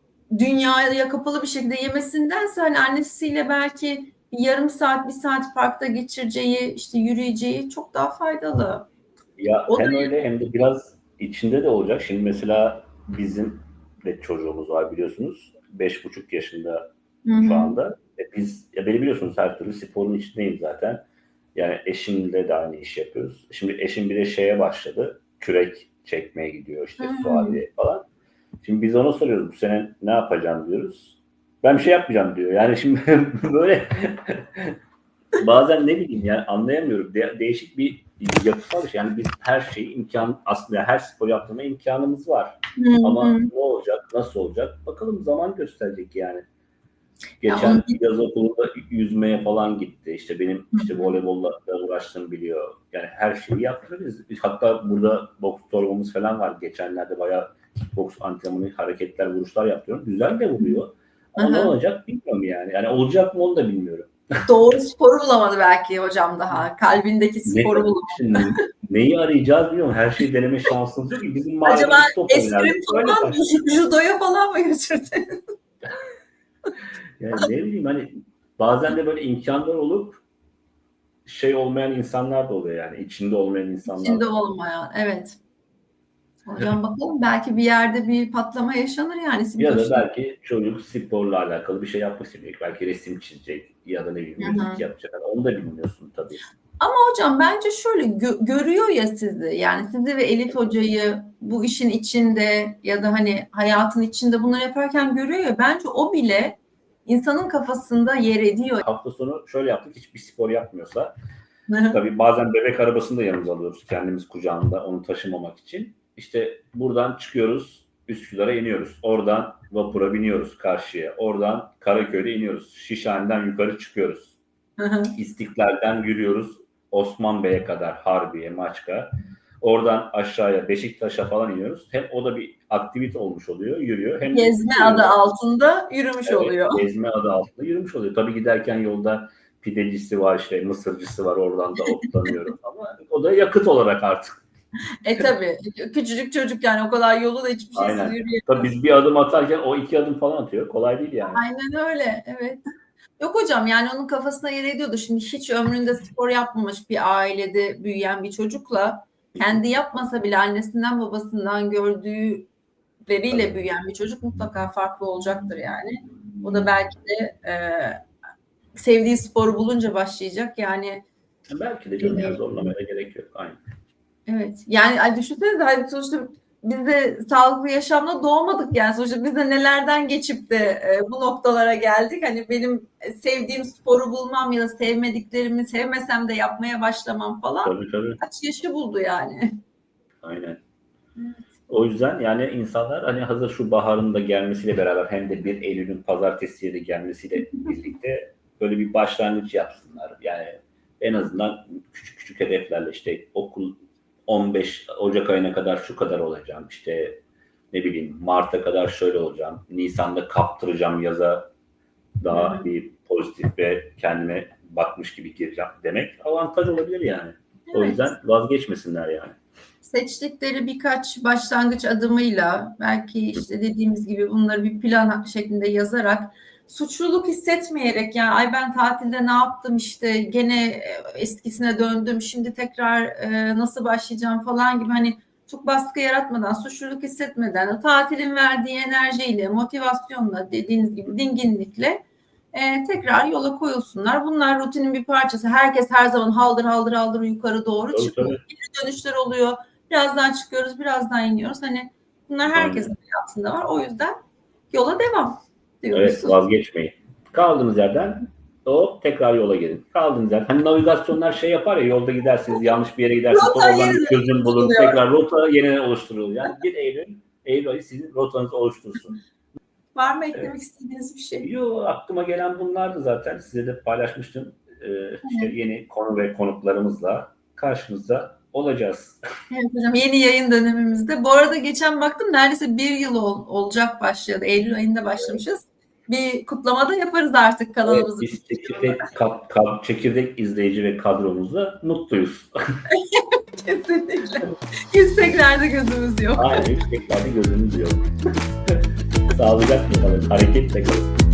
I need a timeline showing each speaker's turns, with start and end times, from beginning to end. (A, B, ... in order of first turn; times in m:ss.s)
0:00.3-0:08.9 A
0:09.4-0:16.8 B
0:09.7-0:10.1 A
0:17.2-0:17.8 A
0:17.4-0:21.0 B
0:21.5-0:28.0 B
0:27.0-0:27.6 A
0:28.6-0:34.8 B
0:35.3-0:46.4 B
0:42.8-0:43.5 A
0:47.4-1:04.4 B
0:47.4-0:48.0 A
0:50.7-0:51.2 A
1:01.4-1:01.7 A
1:04.4-1:08.6 A
1:07.5-1:13.4 B
1:11.6-1:15.4 A
1:17.2-1:20.2 B
1:21.2-1:24.2 B
1:23.9-1:25.4 A
1:26.5-1:30.0 A
1:29.6-1:36.4 B
1:34.4-1:34.8 A
1:36.8-1:48.8 A
1:48.8-1:51.1 B
1:51.7-1:52.0 A
1:51.9-2:04.4 B
2:04.8-2:05.2 A
2:05.2-2:15.2 B
2:14.3-2:16.8 A
2:16.2-2:24.4 B
2:25.0-2:28.7 A
2:27.7-2:31.4 B
2:31.2-2:32.6 A
2:33.2-2:42.5 A
2:43.1-2:48.0 A
2:48.8-2:51.0 A
2:51.5-2:53.6 B
2:52.0-2:52.4 A
2:54.3-3:09.6 A
3:07.6-3:08.2 B
3:10.2-3:10.6 B
3:11.2-3:11.4 A
3:11.7-3:31.5 B
3:32.2-3:39.3 B
3:32.3-3:32.7 A
3:37.7-3:38.1 A
3:39.8-4:14.2 A
4:07.9-4:08.4 B
4:12.5-4:12.9 B
4:14.7-4:16.4 A
4:15.9-4:29.2 B
4:23.3-4:25.0 A
4:29.9-4:31.5 A
4:31.4-4:39.2 B
4:35.2-4:35.5 A
4:39.5-4:49.0 A
4:47.8-4:52.5 B
4:52.9-4:56.7 A
4:56.4-4:58.1 B
4:58.7-5:01.1 B